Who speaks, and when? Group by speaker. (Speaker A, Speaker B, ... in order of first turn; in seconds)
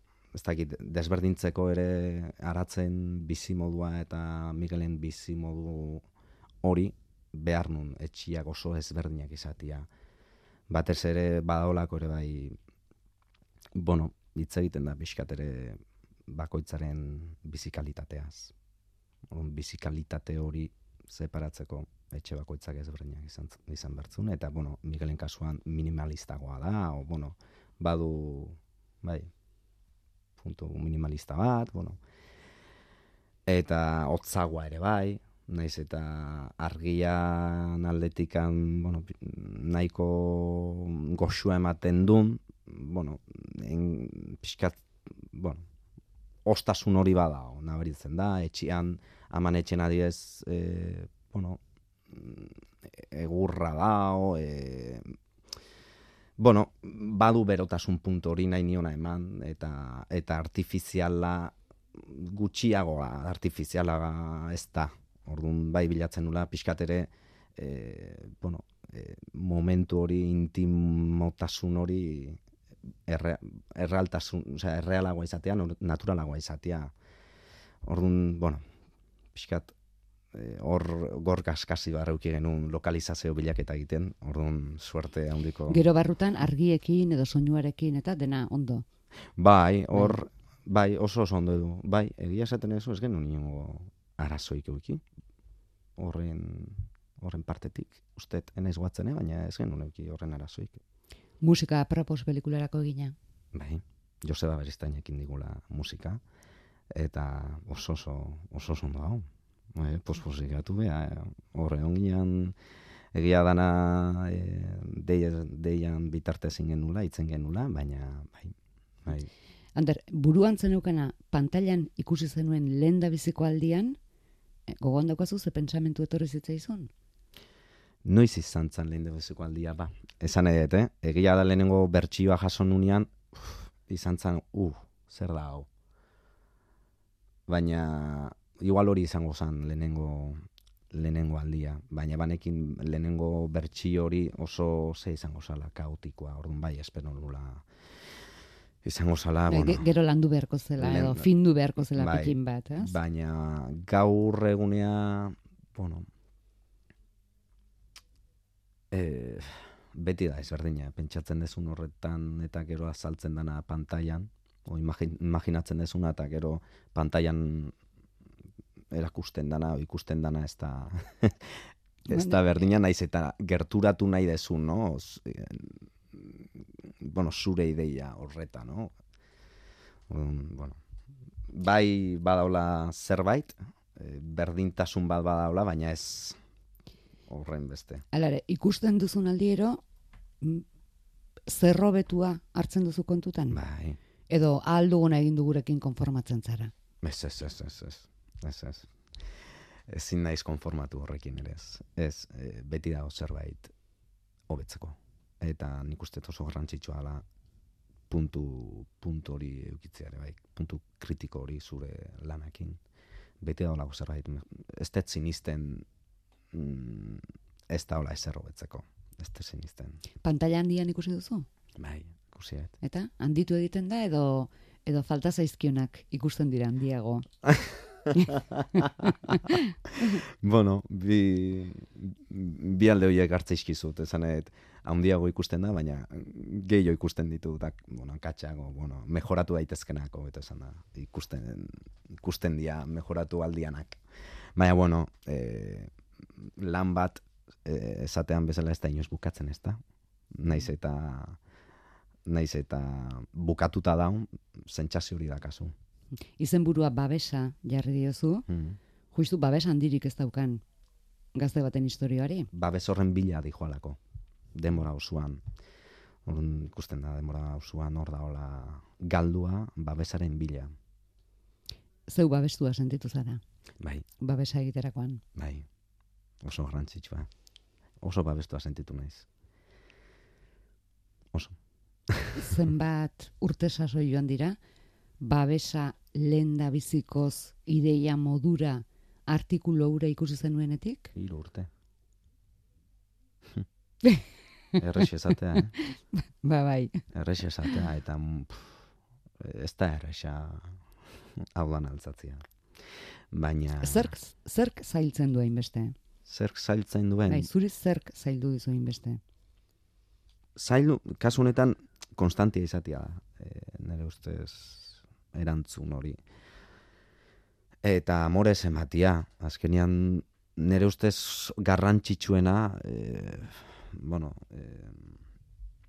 Speaker A: 0.3-6.0, 6.6-9.9, 10.7-12.6, 13.8-18.5, 19.3-29.3, 30.4-32.0, 33.5-45.6, 46.5-55.1, 56.4-72.4, 73.1-76.9, 77.8-78.6, 79.3-79.7, 80.3-85.8, 89.4-95.0, 96.0-100.8, 103.5-106.2, 106.9-112.5, 113.1-119.3, 128.1-135.7, 137.5-148.2, 148.8-149.9, 150.8-151.3, 151.9-156.1, 158.9-167.8, 168.9-178.9, 180.1-180.8, 181.5-186.4, 187.3-188.1, 193.5-194.0, 197.0-203.7, 204.5-207.2, 208.1-212.8, 213.4-215.9, 216.5-220.0, 221.8-222.7, 227.6-228.7, 230.1-244.0, 244.6-249.8, 250.3-251.4, 252.3-255.7, 258.5-258.8, 262.5-264.0, 264.5-265.4, 266.2-270.7, 273.8-274.1, 275.4-275.7, 276.4-277.3, 278.0-279.3, 282.1-282.6, 291.1-291.7, 294.8-295.7, 297.1-298.9, 299.4-300.8, 301.4-304.1, 306.3-307.5, 310.6-316.2, 317.8-325.2
Speaker B: 85.7-88.8, 101.4-103.2, 119.8-124.0, 124.7-126.9, 149.5-152.9, 172.1-172.4, 188.1-189.8, 190.4-190.7, 191.5-193.6, 194.3-196.7, 220.2-221.5, 222.8-227.3, 228.2-229.7, 256.4-258.5, 259.1-260.6, 261.4-262.5, 272.1-273.4, 274.2-275.2, 282.3-284.6, 285.2-291.1, 295.6-297.0, 303.8-306.0, 307.3-309.2